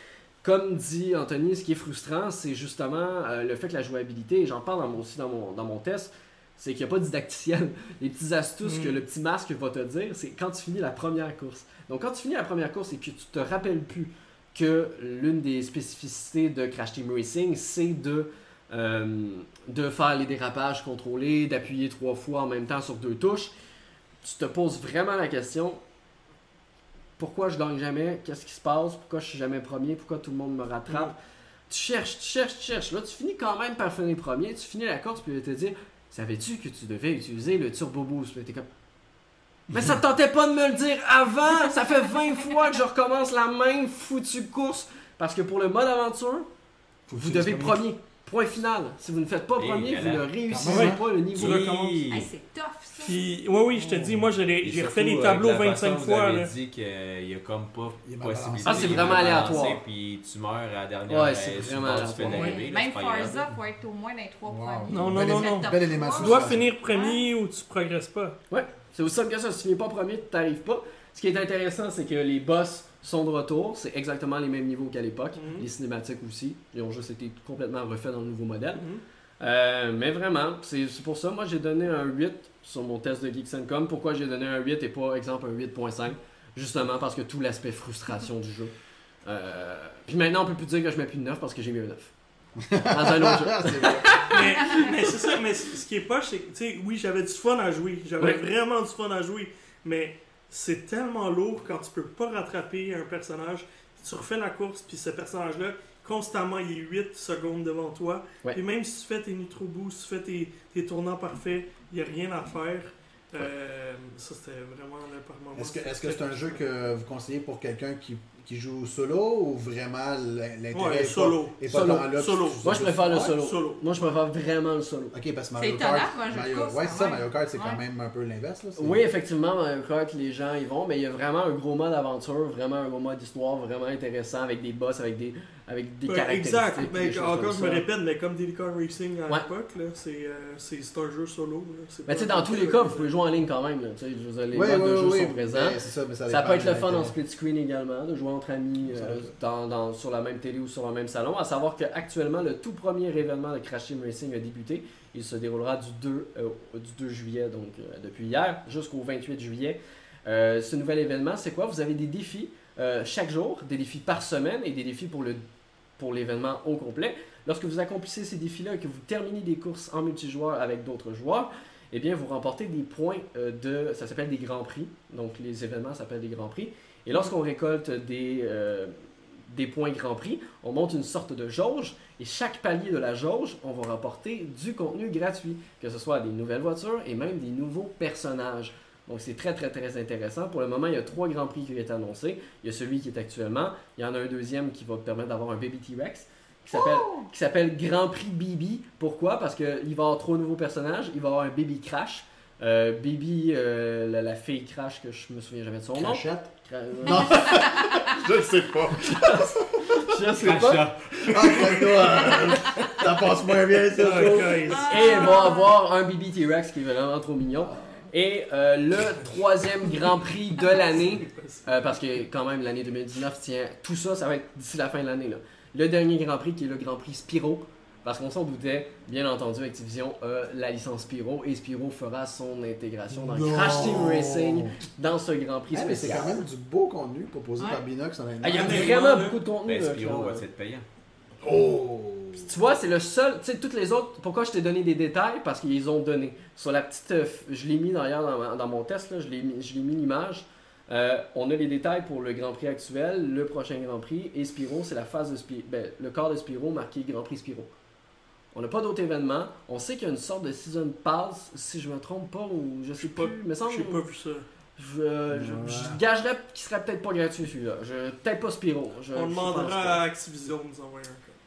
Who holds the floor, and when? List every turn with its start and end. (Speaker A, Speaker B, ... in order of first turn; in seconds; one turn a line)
Speaker A: 0.4-23.5
Speaker B: 8.6-9.0
Speaker A: 24.2-25.8
Speaker A: 27.2-31.1
Speaker A: 31.7-38.7
Speaker C: 39.7-40.0
Speaker A: 39.7-46.5
Speaker C: 47.1-47.9
Speaker A: 47.1-51.7
Speaker D: 49.6-50.3
Speaker C: 50.5-51.0
Speaker B: 50.7-52.0
Speaker D: 51.4-52.3
Speaker E: 52.1-53.2
Speaker B: 53.0-56.5
Speaker C: 53.9-54.2
Speaker D: 54.6-63.4
Speaker C: 58.0-59.5
Speaker A: 58.6-59.8
Speaker A: 61.1-62.5
Speaker B: 62.3-62.6
Speaker E: 62.3-67.2
Speaker C: 64.5-66.7
Speaker B: 64.9-68.4
Speaker A: 68.5-78.9
Speaker B: 75.4-75.7
Speaker B: 78.7-79.0
Speaker A: 79.4-88.7
Speaker A: 89.2-92.1
Speaker C: 92.6-94.7
Speaker A: 92.9-94.3
Speaker B: 94.3-116.6
Speaker C: 115.6-123.3
Speaker B: 120.7-123.8
Speaker A: 121.7-125.2
Speaker C: 125.1-129.0
Speaker E: 125.6-127.8
Speaker A: 128.8-137.9
Speaker B: 136.1-143.1
Speaker A: 142.1-165.4
Speaker C: 144.5-147.2
Speaker C: 148.9-149.3
Speaker A: 166.0-178.9
Speaker A: 179.5-207.8
Speaker C: 205.9-206.5
Speaker C: 207.0-214.7
Speaker E: 207.4-208.0
Speaker A: 209.0-212.5
Speaker B: 211.3-212.1
Speaker E: 212.6-212.9
Speaker B: 214.0-215.3
Speaker A: 214.0-236.4
Speaker E: 214.6-215.7
Speaker C: 217.7-217.9
Speaker B: 220.9-221.7
Speaker C: 233.1-234.7
Speaker C: 235.7-238.9
Speaker E: 237.6-237.8
Speaker A: 238.4-240.4
Speaker B: 238.5-239.4
Speaker D: 239.7-240.8
Speaker C: 241.4-242.5
Speaker A: 242.4-257.7
Speaker A: 258.5-264.0
Speaker B: 263.0-264.4
Speaker A: 264.8-270.0
Speaker C: 265.3-266.0
Speaker B: 269.1-271.4